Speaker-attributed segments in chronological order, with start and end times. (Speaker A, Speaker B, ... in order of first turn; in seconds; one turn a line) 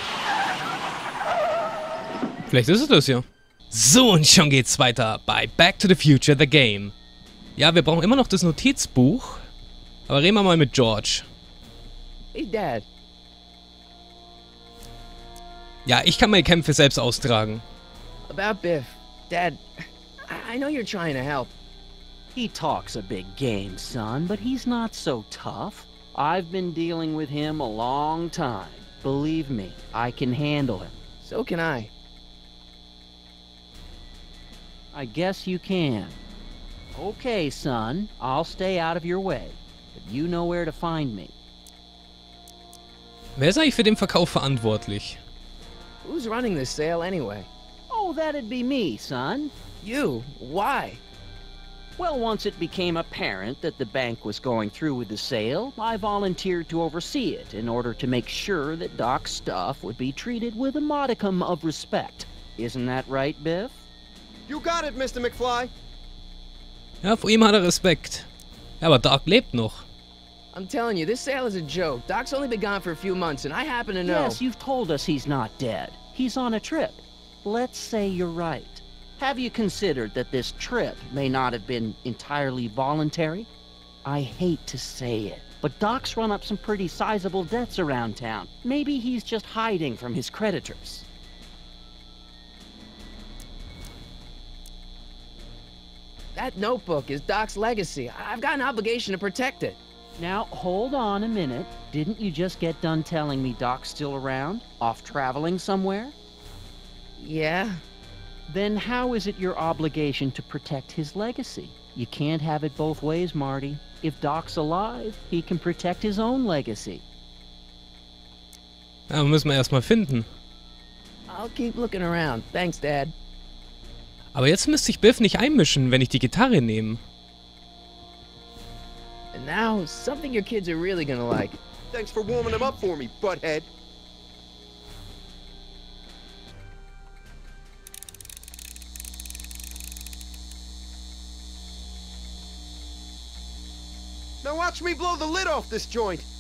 Speaker A: 2.5-6.9
Speaker A: 7.6-9.5
Speaker A: 10.1-11.3
Speaker B: 12.3-12.9
Speaker A: 15.9-17.6
Speaker B: 18.3-19.6
Speaker B: 20.3-21.5
Speaker C: 22.3-31.0
Speaker B: 31.2-31.9
Speaker C: 34.9-36.2
Speaker C: 37.0-41.3
Speaker A: 43.4-45.2
Speaker B: 46.0-47.5
Speaker C: 47.9-49.5
Speaker B: 49.8-51.0
Speaker C: 52.0-63.9
Speaker D: 64.5-65.7
Speaker A: 67.0-68.3
Speaker A: 68.8-69.9
Speaker B: 70.5-74.4
Speaker C: 74.0-83.5
Speaker C: 84.0-91.1
Speaker B: 96.3-99.8
Speaker C: 100.2-106.2
Speaker B: 107.2-107.8
Speaker C: 108.5-117.0
Speaker A: 119.1-120.3
Speaker B: 121.3-123.1
Speaker A: 124.3-127.0
Speaker B: 129.3-131.6
Speaker D: 131.9-133.7
Speaker D: 144.4-146.3